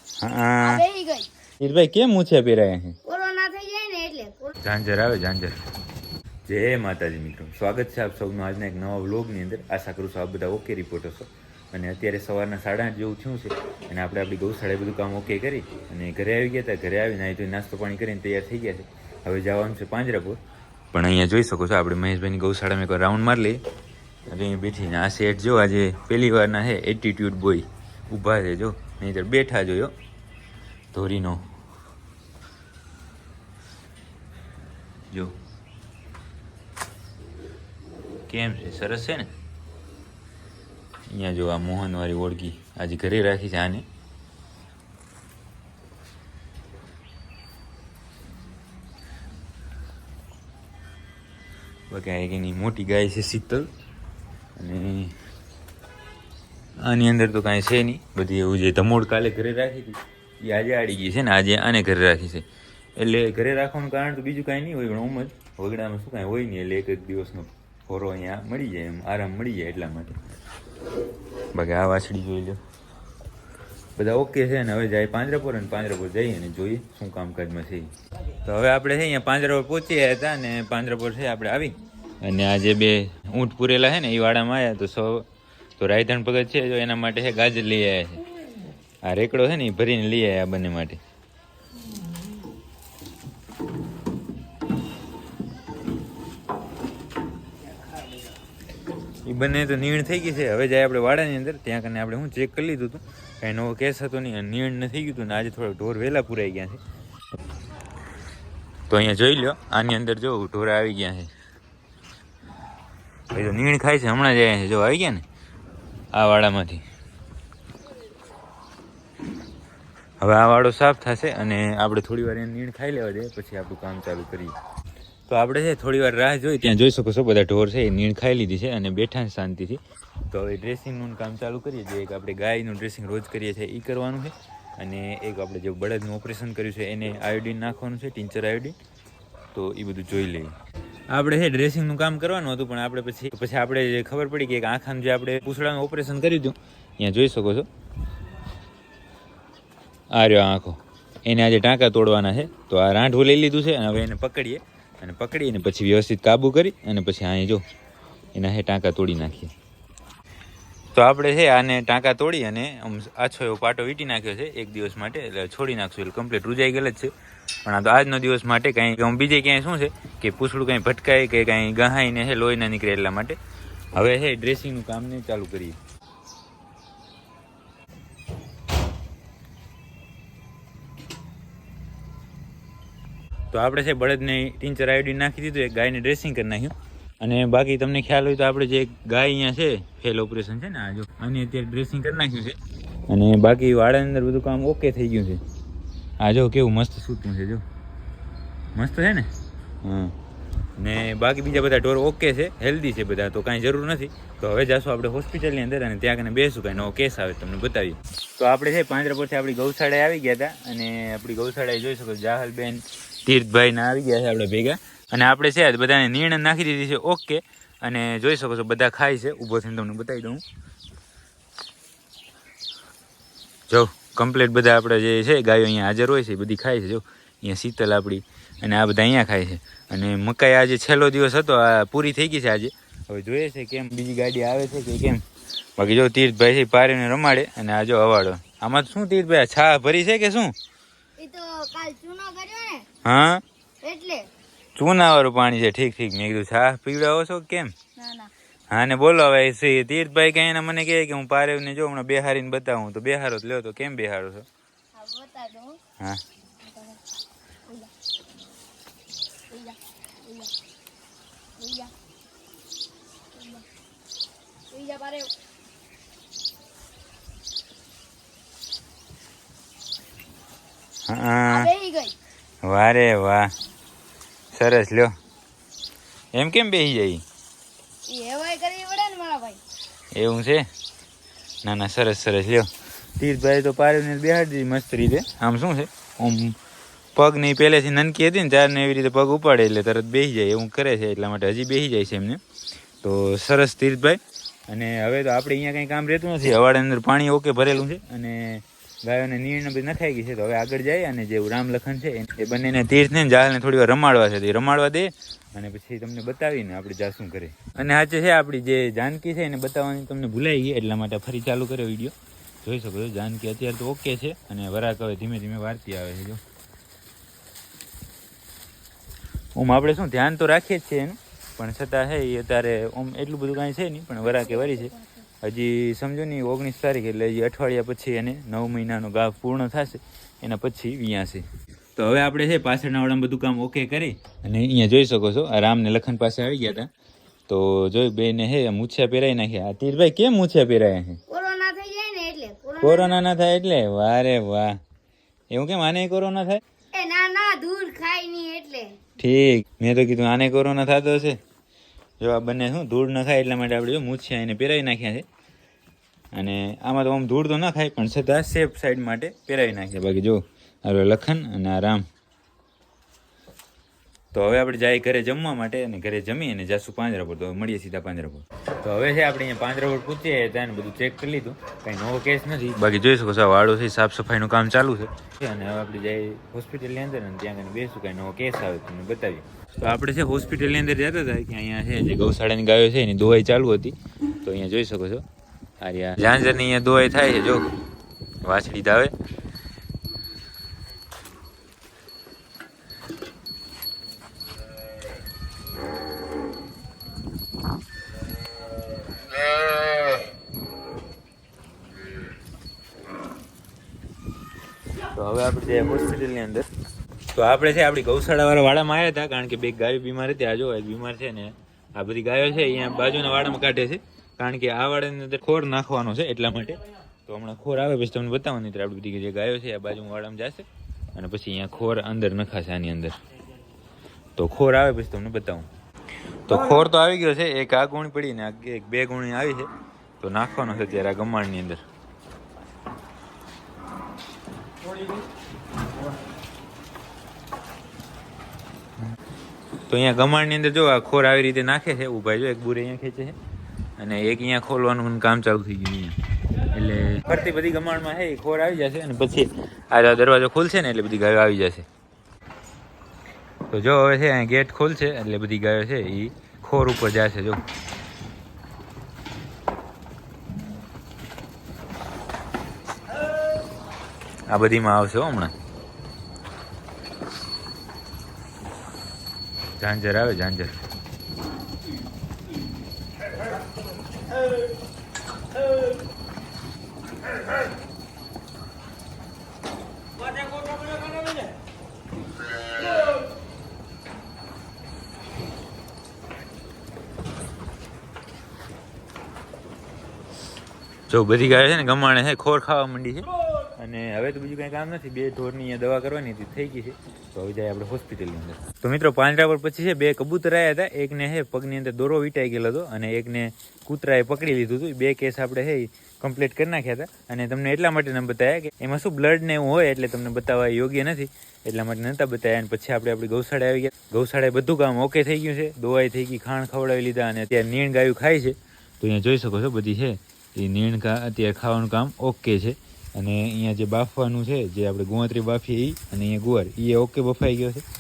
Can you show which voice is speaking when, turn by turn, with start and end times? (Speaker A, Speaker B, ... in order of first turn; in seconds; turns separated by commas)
Speaker A: 0.2-0.8, Speaker B: 0.6-1.3, Speaker A: 1.6-3.0, Speaker B: 3.0-4.5, Speaker A: 4.6-5.6, Speaker A: 6.5-20.4, Speaker A: 20.9-23.6, Speaker A: 24.3-29.9, Speaker A: 30.9-31.5, Speaker A: 35.1-35.4, Speaker A: 38.3-39.3, Speaker A: 41.1-43.9, Speaker A: 51.9-53.7, Speaker A: 54.6-55.2, Speaker A: 56.8-70.2, Speaker A: 71.5-72.6, Speaker A: 74.0-77.9, Speaker A: 78.4-85.3, Speaker A: 85.8-88.2, Speaker A: 89.0-91.0, Speaker A: 99.2-106.8, Speaker A: 108.9-111.3, Speaker A: 113.3-115.2, Speaker A: 116.1-116.8, Speaker A: 120.2-124.5, Speaker A: 125.3-138.8, Speaker A: 139.5-140.5, Speaker A: 141.1-147.7, Speaker A: 150.1-157.6, Speaker A: 158.3-159.5, Speaker A: 160.9-167.1, Speaker A: 167.7-173.4, Speaker A: 173.9-175.8, Speaker A: 183.5-192.6, Speaker A: 193.1-195.4, Speaker A: 196.2-197.6, Speaker A: 198.8-199.3, Speaker A: 199.8-200.2, Speaker A: 200.8-220.4, Speaker A: 223.7-235.2, Speaker A: 235.8-240.5, Speaker B: 241.2-242.9, Speaker A: 243.0-243.4, Speaker B: 243.8-244.3, Speaker A: 244.8-247.7, Speaker B: 248.0-248.3, Speaker A: 248.7-254.5, Speaker B: 254.9-255.8, Speaker B: 256.6-257.0, Speaker B: 259.5-260.5, Speaker B: 261.6-261.9, Speaker B: 263.3-263.6, Speaker B: 264.7-265.3, Speaker A: 271.1-271.7, Speaker B: 271.5-272.1, Speaker A: 272.6-273.5, Speaker A: 274.5-275.1, Speaker A: 276.3-277.2, Speaker B: 278.1-279.6, Speaker A: 280.1-280.7, Speaker A: 281.6-286.6, Speaker A: 287.2-292.4, Speaker A: 293.0-316.4, Speaker A: 319.6-336.9, Speaker B: 324.2-325.2, Speaker A: 337.5-341.2, Speaker B: 341.3-343.2, Speaker A: 342.8-344.8, Speaker A: 345.5-346.6, Speaker B: 346.9-349.0, Speaker A: 349.2-351.4, Speaker A: 352.2-355.3, Speaker A: 356.3-362.1, Speaker A: 364.3-385.2, Speaker A: 385.8-387.7, Speaker A: 388.4-389.1, Speaker A: 405.1-406.7, Speaker A: 407.3-423.2, Speaker A: 424.4-425.7, Speaker A: 426.5-431.8, Speaker A: 439.9-443.4, Speaker A: 444.0-446.2, Speaker A: 446.7-451.9, Speaker A: 453.7-457.6, Speaker A: 464.5-465.5, Speaker A: 469.8-470.8, Speaker A: 491.1-527.8